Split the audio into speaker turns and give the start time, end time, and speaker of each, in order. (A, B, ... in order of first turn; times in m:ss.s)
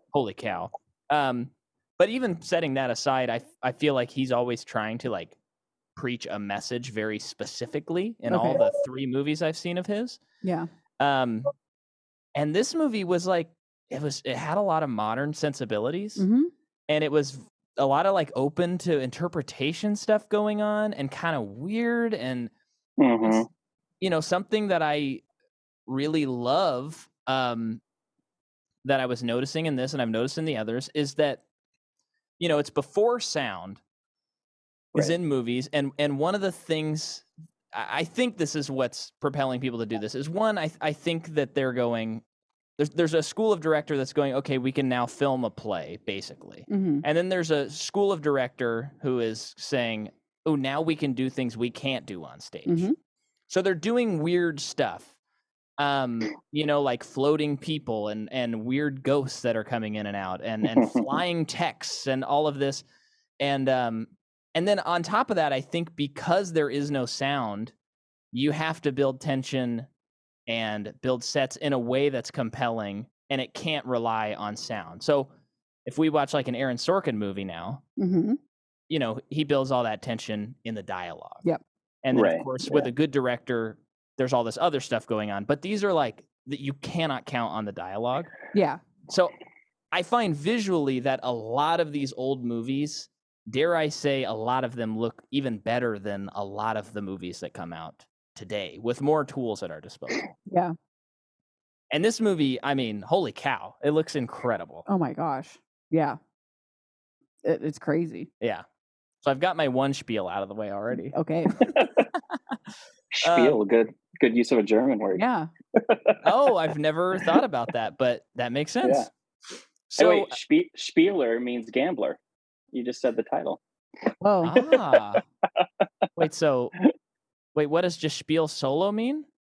0:00.1-0:05.4 A
0:06.0-0:10.2 A
0:08.3-0:08.6 B
0:10.4-0:10.7 B
0:11.0-0:11.5 A
0:12.4-0:16.2 A
0:16.2-0:16.5 B
0:16.9-0:22.5 A
0:23.0-0:23.5 C
0:24.0-0:25.2 A
0:25.9-0:27.8 A
0:28.8-0:31.4 A
0:32.4-0:33.8 A
0:35.0-0:42.2 A
0:42.8-0:52.9 A
0:46.7-0:47.0 B
0:52.7-0:53.0 B
0:53.5-0:55.2 A
0:55.8-1:02.8 A
1:00.8-1:01.1 C
1:03.4-1:07.7 A
1:08.3-1:09.9 A
1:10.5-1:15.3 A
1:15.8-1:17.8 A
1:18.0-1:18.4 B
1:18.9-1:21.4 A
1:22.0-1:28.3 A
1:22.1-1:22.9 C
1:28.5-1:28.8 B
1:29.1-1:29.3 A
1:29.9-1:40.3 A
1:40.5-1:40.8 B
1:41.9-1:44.8 A
1:44.9-1:46.2 B
1:47.4-1:48.3 B
1:49.2-1:51.2 A
1:51.1-1:51.7 B
1:51.6-1:52.1 C
1:53.1-1:55.2 C
1:53.2-1:53.6 A
1:55.2-1:55.5 B
1:55.7-1:56.2 C
1:56.2-1:59.1 A
1:58.8-1:59.1 C
1:59.9-2:00.4 A
2:00.0-2:02.2 C
2:02.7-2:03.6 C
2:04.2-2:04.6 B
2:04.4-2:05.2 A
2:04.6-2:05.0 C
2:06.2-2:06.8 A
2:07.6-2:09.3 A